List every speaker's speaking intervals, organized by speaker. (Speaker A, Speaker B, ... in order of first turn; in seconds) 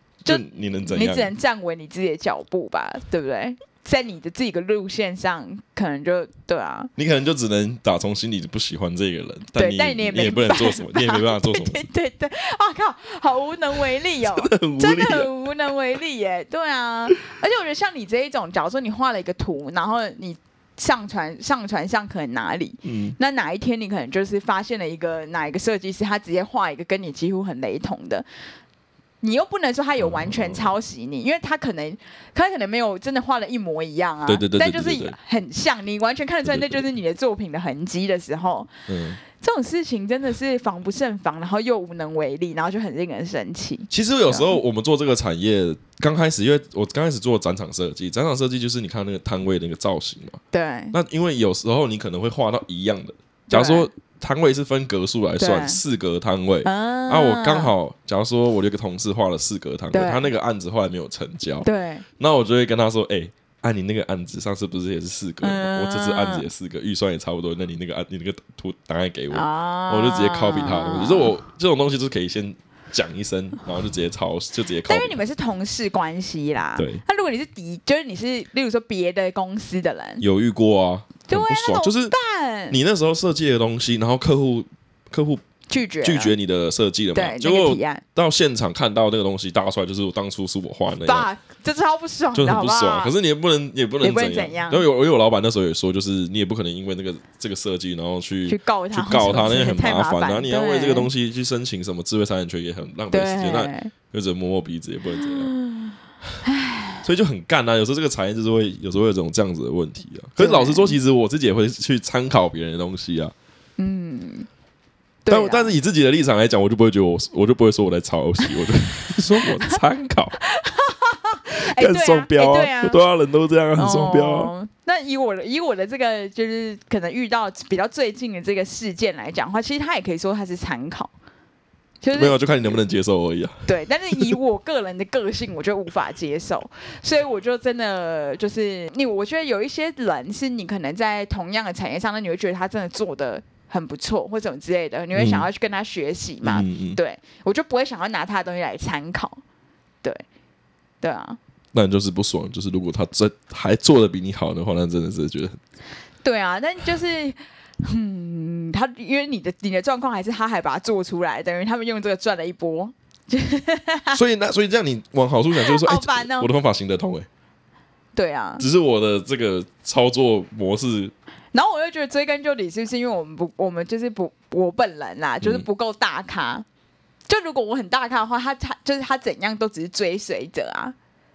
Speaker A: 0.2-1.3, 7.0-11.8, 14.2-15.3, 22.8-23.2, 30.0-30.7, 34.3-35.1, 36.5-36.9, 38.9-39.2, 43.9-50.4, 50.9-61.7, 62.2-75.2, 76.8-77.0, 80.2-82.1, 82.7-85.4, 86.0-91.3, 92.3-105.5, 107.0-113.3, 115.3-120.4, 121.5-124.5, 132.1-134.3, 145.1-145.5, 146.4-147.0, 151.7-155.6, 164.1-167.3, 168.6-171.1
Speaker B: 0.2-6.9, 9.5-28.2, 29.2-38.7, 39.2-44.6, 50.5-50.9, 53.5-53.9, 55.4-55.8, 56.6-57.7, 59.9-60.3, 61.6-62.0, 65.4-66.5, 69.3-71.3, 74.9-80.2, 81.3-82.8, 85.7-86.3, 87.1-88.0, 91.0-93.1, 94.0-94.8, 98.5-101.1, 103.1-103.9, 105.2-107.0, 110.4-111.0, 113.8-114.5, 115.2-115.7, 120.4-123.0, 123.7-131.1, 132.0-132.8, 133.7-149.4, 151.0-151.4, 156.2-164.2, 165.5-166.5, 168.1-168.6, 171.5-176.7, 177.3-180.9